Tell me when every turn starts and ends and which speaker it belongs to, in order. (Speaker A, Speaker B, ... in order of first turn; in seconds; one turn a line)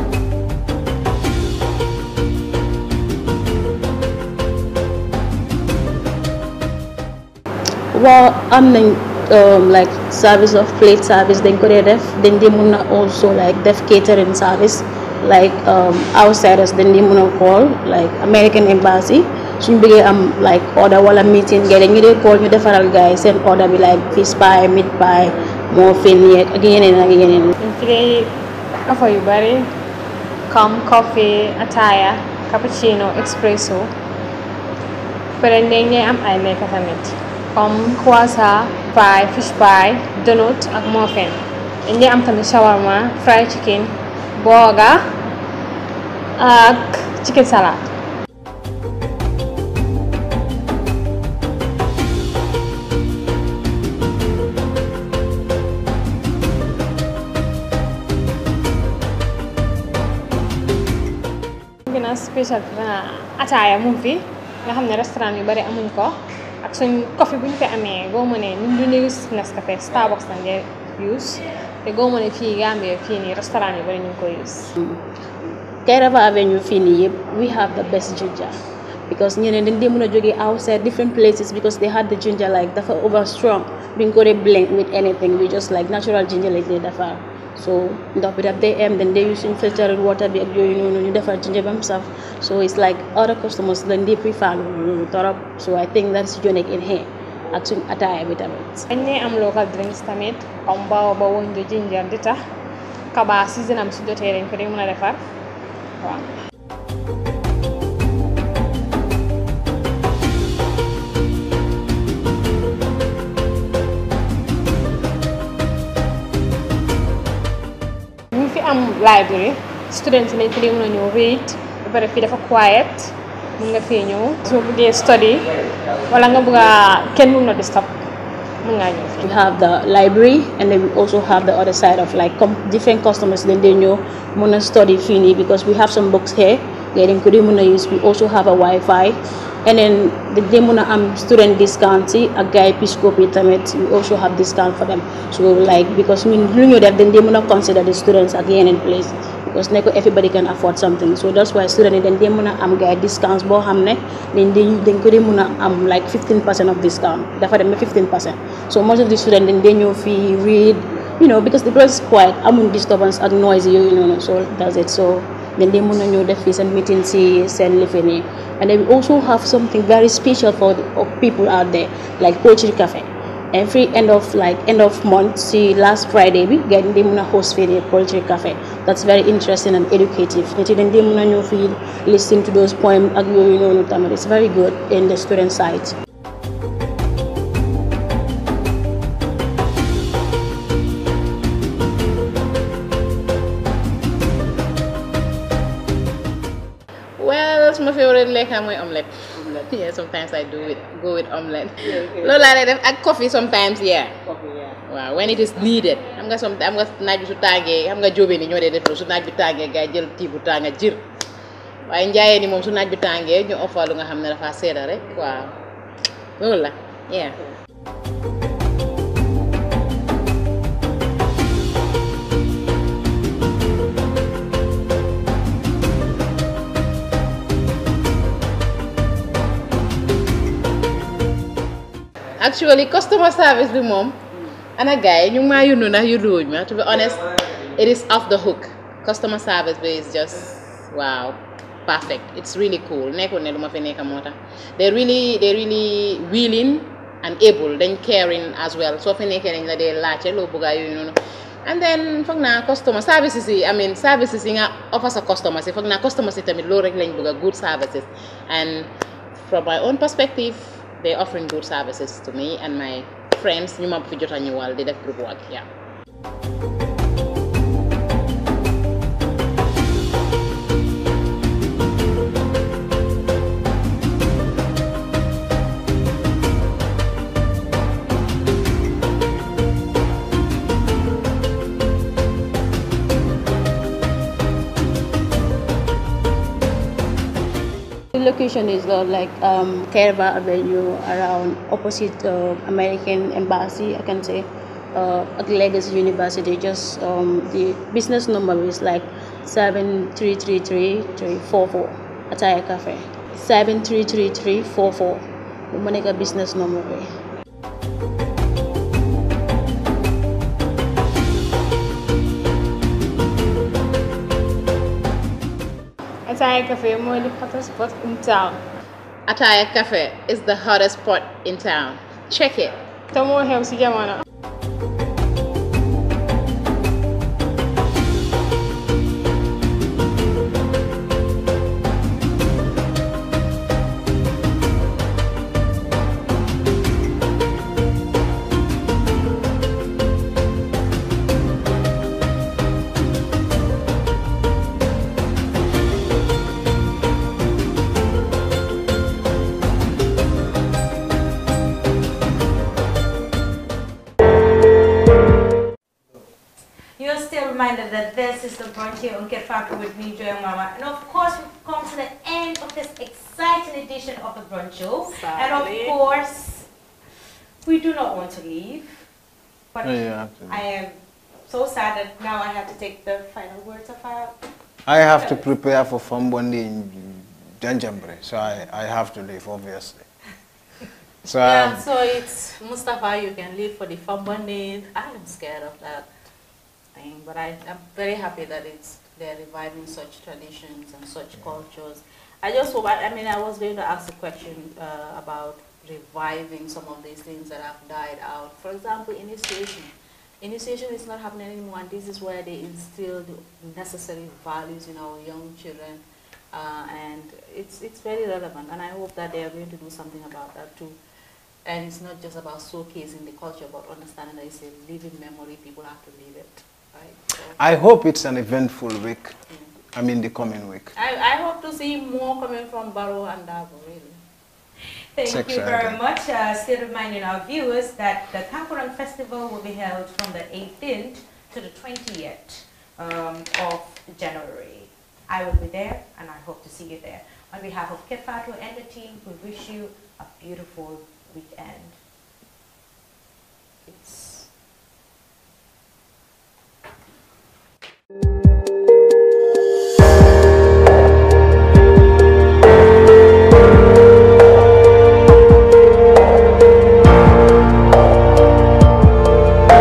Speaker A: 7.9-27.5
Speaker B: 27.6-28.3
Speaker B: 28.9-29.7
Speaker B: 30.5-33.9
Speaker B: 35.4-45.0
Speaker B: 46.4-47.9
Speaker B: 61.9-74.7
Speaker A: 75.8-78.6
Speaker A: 79.1-98.8
Speaker B: 98.9-102.4
Speaker B: 103.1-105.2
Speaker B: 106.0-106.2
Speaker B: 118.3-125.5
Speaker B: 126.1-128.0
Speaker B: 128.6-129.3
Speaker A: 129.2-186.0
Speaker C: 197.2-211.0
Speaker C: 211.8-215.5
Speaker C: 216.4-217.3
Speaker C: 232.4-234.2
Speaker C: 234.8-265.6
Speaker A: 288.1-307.1
Speaker B: 316.3-318.6
Speaker C: 319.3-322.8
Speaker B: 323.1-324.2
Speaker D: 357.0-366.7
Speaker E: 365.0-366.0
Speaker D: 367.6-369.1
Speaker D: 369.7-374.3
Speaker F: 369.8-370.6
Speaker F: 374.9-380.1
Speaker D: 375.0-375.4
Speaker F: 381.2-381.8
Speaker E: 381.4-386.1
Speaker E: 386.9-411.0
Speaker E: 411.6-417.6
Speaker F: 417.6-419.4
Speaker F: 419.9-420.9
Speaker E: 420.9-424.2
Speaker D: 425.1-442.0
Speaker F: 425.2-426.0
Speaker E: 443.8-444.5